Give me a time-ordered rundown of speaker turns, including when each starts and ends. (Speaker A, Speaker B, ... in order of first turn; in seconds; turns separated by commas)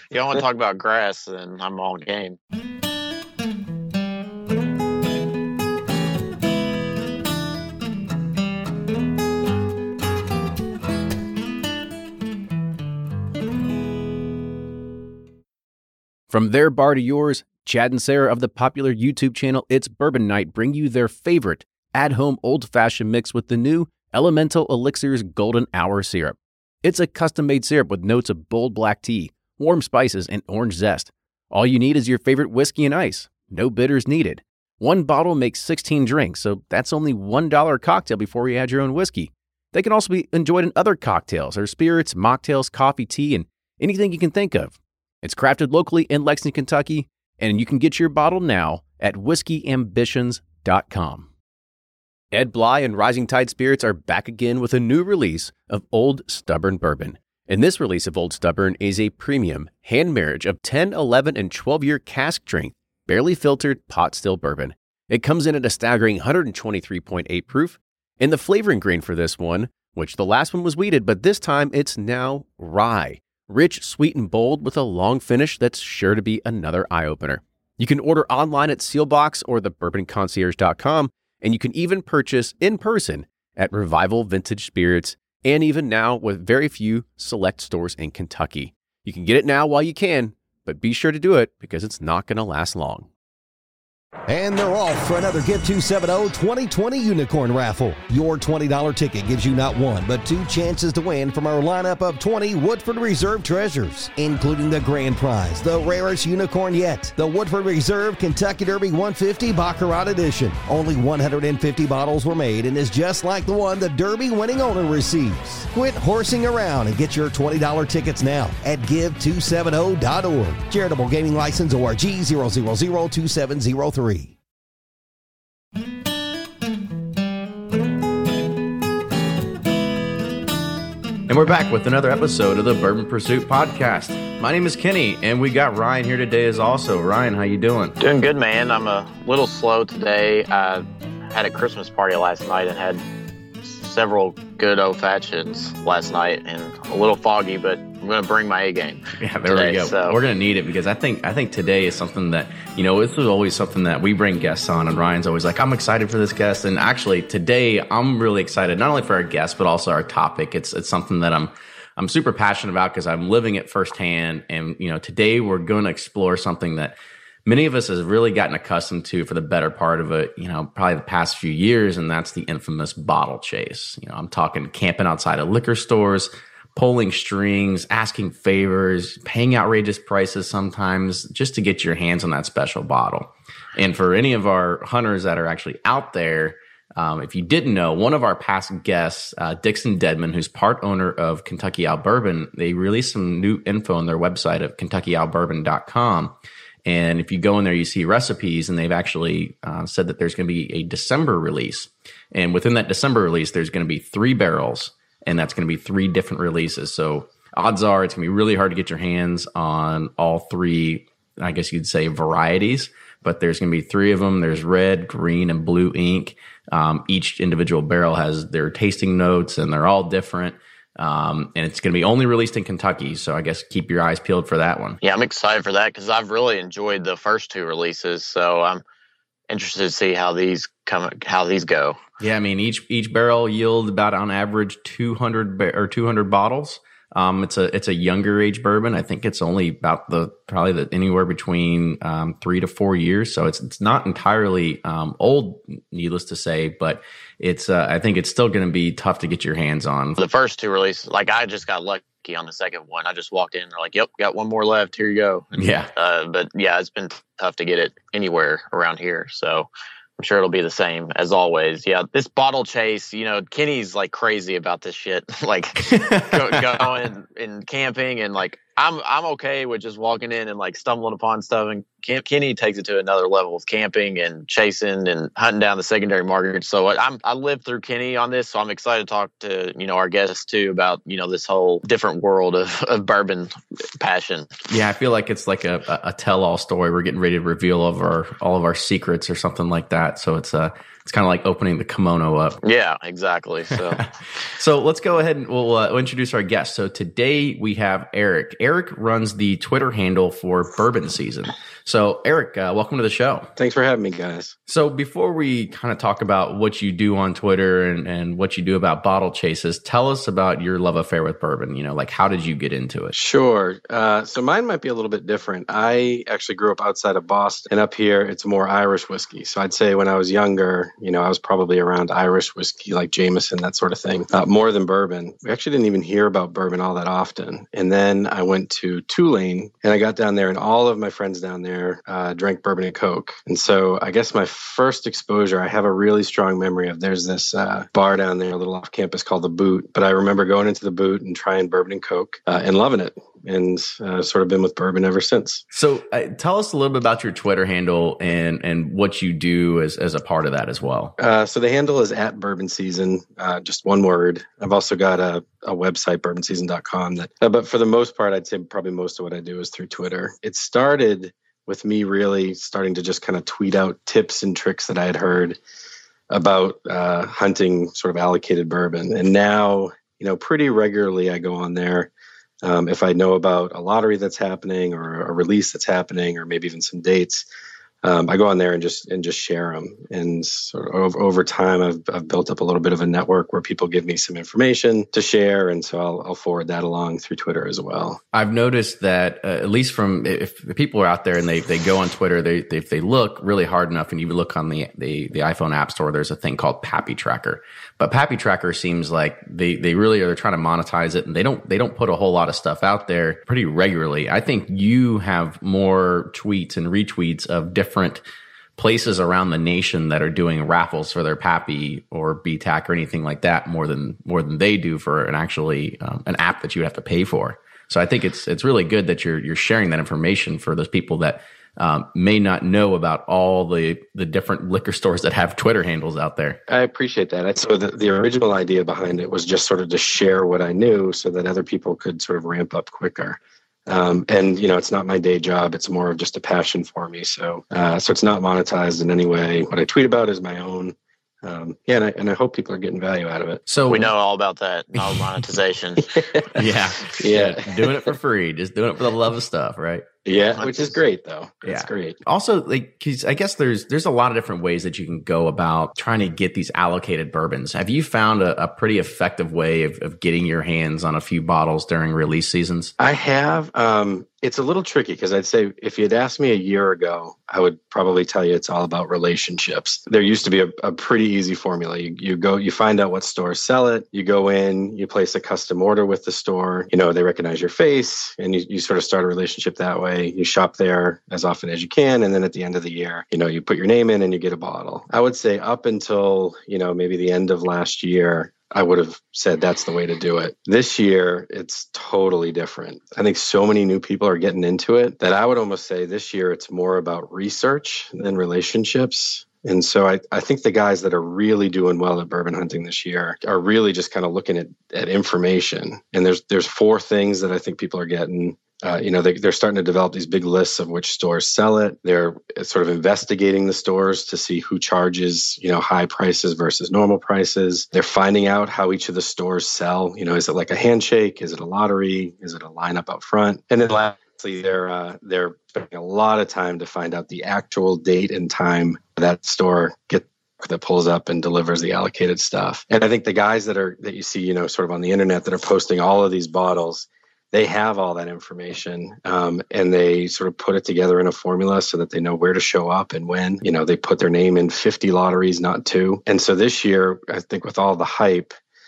Speaker A: 0.1-2.4, Speaker B: 16.3-51.3, Speaker B: 52.3-93.1, Speaker C: 94.3-124.3, Speaker D: 131.3-138.0, Speaker A: 138.0-143.0, Speaker A: 143.7-150.2, Speaker D: 149.2-196.3, Speaker D: 196.9-225.0, Speaker A: 225.0-228.8, Speaker A: 229.5-232.0, Speaker D: 232.2-250.2, Speaker A: 250.2-284.5, Speaker D: 255.6-255.9, Speaker D: 265.8-266.9, Speaker D: 284.7-292.6, Speaker A: 292.6-294.0, Speaker D: 293.7-303.5, Speaker E: 303.6-304.5, Speaker D: 304.7-313.2, Speaker E: 313.1-345.6, Speaker D: 345.7-351.1, Speaker E: 351.2-365.6, Speaker E: 366.3-372.1, Speaker E: 372.6-377.5, Speaker E: 378.0-388.2, Speaker D: 388.3-408.2, Speaker D: 408.8-426.6, Speaker E: 426.7-443.6, Speaker D: 443.7-444.1, Speaker A: 443.9-446.1, Speaker E: 446.0-446.5, Speaker D: 446.5-450.1, Speaker E: 447.2-448.1, Speaker E: 450.3-452.2, Speaker A: 450.6-450.9, Speaker D: 451.6-462.9, Speaker E: 463.0-548.6